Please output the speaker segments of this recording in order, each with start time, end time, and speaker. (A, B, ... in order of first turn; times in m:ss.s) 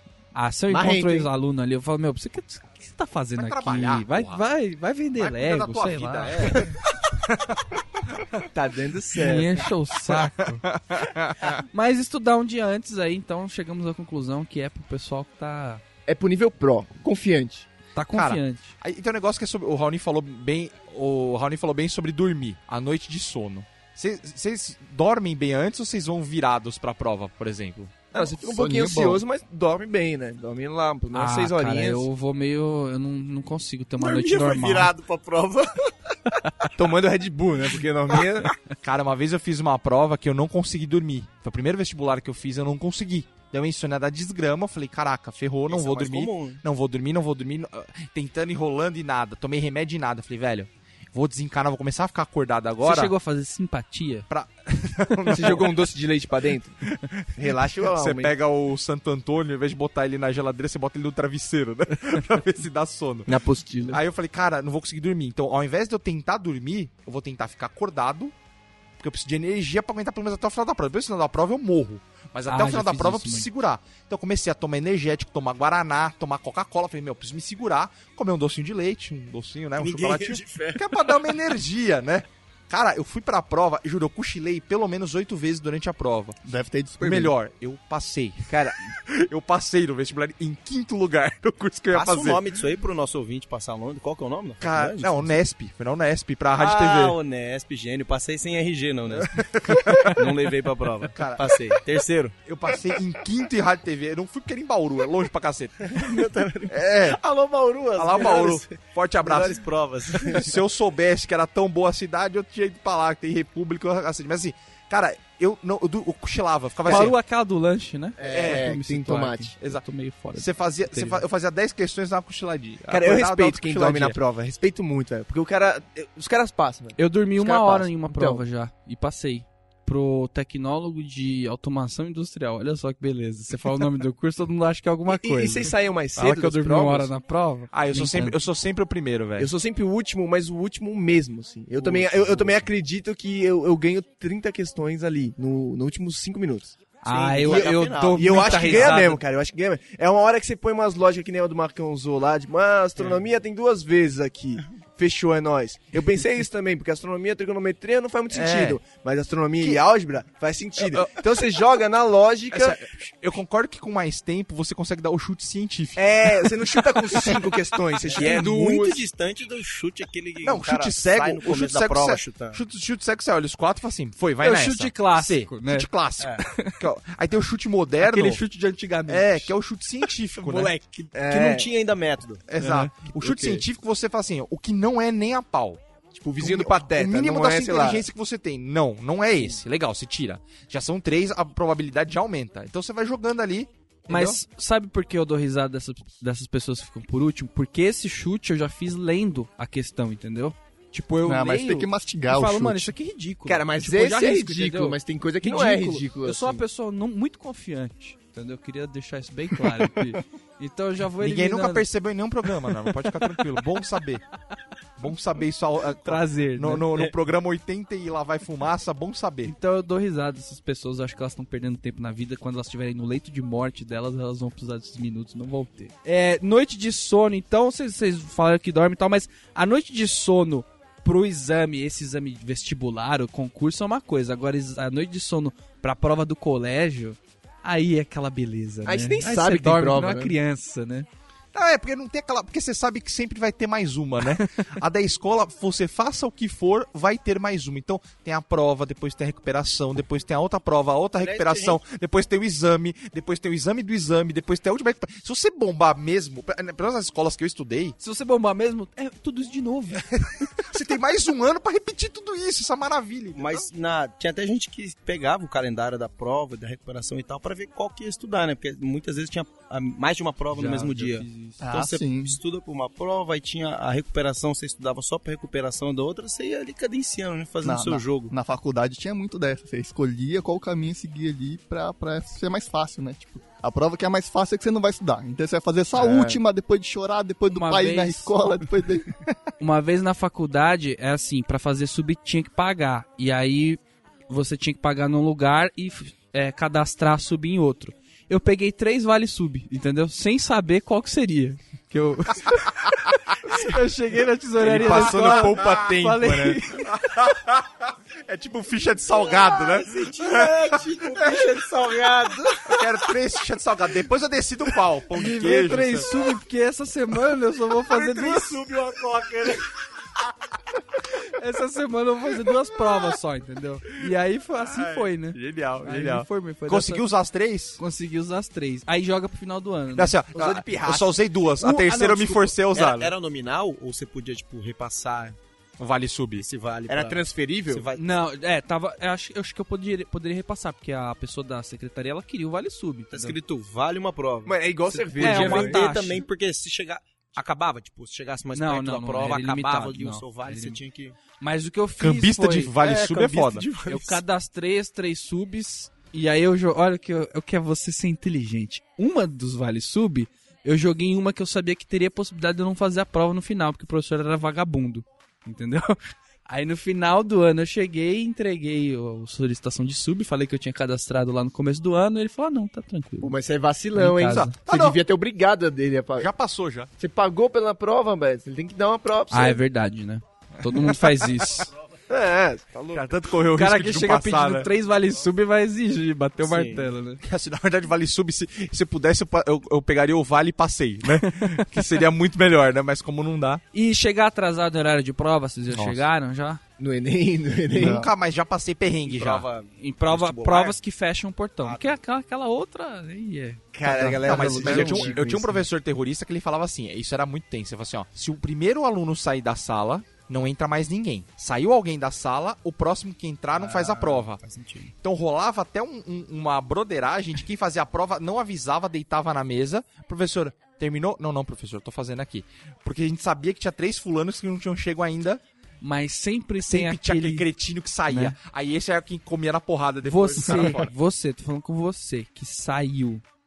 0:00.3-0:06.6 A
0:00.7-0:01.3 B
0:03.3-0:04.4 C
0:05.2-0:07.6 C
0:06.5-0:06.7 B
0:08.5-0:09.7 B
0:09.2-0:10.6 A
0:10.1-0:11.6 C
0:11.4-0:15.8 A
0:16.1-0:17.7 B
0:17.9-0:18.7 A
0:18.1-0:28.0 C
0:28.1-0:32.0 B
0:28.2-0:29.2 D
0:31.1-0:34.9 A
0:34.0-0:35.9 B
0:36.7-0:38.5 B
0:38.8-0:53.1 C
0:45.7-0:46.6 E
0:52.8-0:54.3 A
0:54.3-0:55.8 C
0:55.3-0:56.8 B
0:56.8-1:03.3 C
0:57.4-0:58.3 B
1:03.3-1:04.0 B
1:03.9-1:08.3 C
1:09.0-1:26.4 C
1:12.5-1:13.5 A
1:19.8-1:21.1 E
1:26.4-1:27.3 D
1:27.0-1:32.4 C
1:31.9-1:35.4 E
1:34.6-1:37.2 C
1:36.6-1:42.3 E
1:39.1-1:40.4 C
1:41.1-1:41.6 C
1:42.4-1:46.1 C
1:45.8-1:50.5 E
1:46.7-1:47.2 C
1:48.0-1:49.6 C
1:50.2-1:57.1 C
1:56.8-2:01.2 A
1:58.2-1:59.5 B
1:58.2-1:58.8 C
1:59.6-2:04.2 C
2:02.9-2:08.4 B
2:07.0-2:18.4 A
2:15.1-2:17.1 B
2:17.7-2:19.5 C
2:19.4-2:26.8 B
2:21.8-2:22.4 E
2:27.0-2:29.2 A
2:27.0-2:29.1 E
2:27.4-2:42.8 B
2:38.3-2:38.8 C
2:40.8-2:41.2 C
2:42.5-2:47.2 C
2:46.0-2:49.0 B
2:48.1-2:52.6 E
2:50.4-2:58.4 C
2:54.4-2:55.9 A
2:56.5-2:56.8 A
2:58.0-2:59.5 A
2:59.1-3:00.7 C
3:00.6-3:02.4 E
3:01.1-3:01.7 B
3:02.5-3:05.8 C
3:02.6-3:02.9 A
3:06.1-3:08.0 B
3:06.4-3:14.4 C
3:14.1-3:31.8 A
3:21.2-3:22.9 D
3:23.4-3:26.6 B
3:31.2-3:34.2 C
3:35.0-3:39.5 C
3:36.0-3:37.0 A
3:39.4-4:01.1 A
3:58.8-4:00.3 B
4:01.5-4:18.0 C
4:11.2-4:11.8 E
4:18.0-4:20.0 A
4:20.6-4:23.7 C
4:23.3-4:38.3 E
4:30.5-4:31.6 A
4:31.6-4:32.4 D
4:37.6-4:49.2 D
4:45.9-4:46.4 B
4:47.5-4:48.3 A
4:49.6-5:02.8 A
5:03.4-5:06.9 A
5:04.6-5:06.6 B
5:04.6-5:06.0 C
5:06.8-5:11.5 C
5:09.1-5:12.8 E
5:12.7-5:16.1 C
5:15.1-5:18.6 A
5:17.9-5:19.6 E
5:21.3-5:27.0 A
5:24.6-5:27.8 C
5:27.8-5:30.2 A
5:29.9-5:33.1 C
5:30.3-5:31.1 B
5:31.6-5:32.5 A
5:32.7-5:35.4 E
5:35.8-5:36.5 C
5:36.4-5:38.2 E
5:36.9-5:37.8 B
5:38.0-5:43.4 A
5:43.1-5:51.2 E
5:44.4-5:45.8 B
5:45.2-5:46.2 A
5:48.5-5:50.8 A
5:51.4-5:52.7 A
5:52.0-5:53.7 C
5:52.8-5:54.2 E
5:53.8-6:06.0 A
6:06.5-6:13.3 A
6:13.2-6:16.3 B
6:13.9-6:14.5 A
6:14.2-6:15.0 C
6:16.2-6:16.9 C
6:17.0-6:19.6 B
6:19.3-6:21.7 A
6:22.1-6:23.0 B
6:22.9-6:24.7 C
6:23.5-6:27.2 A
6:26.4-6:26.9 E
6:27.2-6:33.6 C
6:33.7-6:36.6 A
6:35.7-6:36.1 C
6:36.8-6:38.0 B
6:37.7-6:39.5 C
6:37.8-6:38.1 D
6:39.0-6:40.8 E
6:39.8-6:45.0 A
6:41.6-6:42.0 E
6:43.7-6:45.6 B
6:44.2-6:54.4 C
6:53.5-6:54.9 E
6:55.0-7:05.4 C
7:05.8-7:07.5 A
7:06.6-7:10.9 C
7:08.1-7:08.3 A
7:10.0-7:13.2 A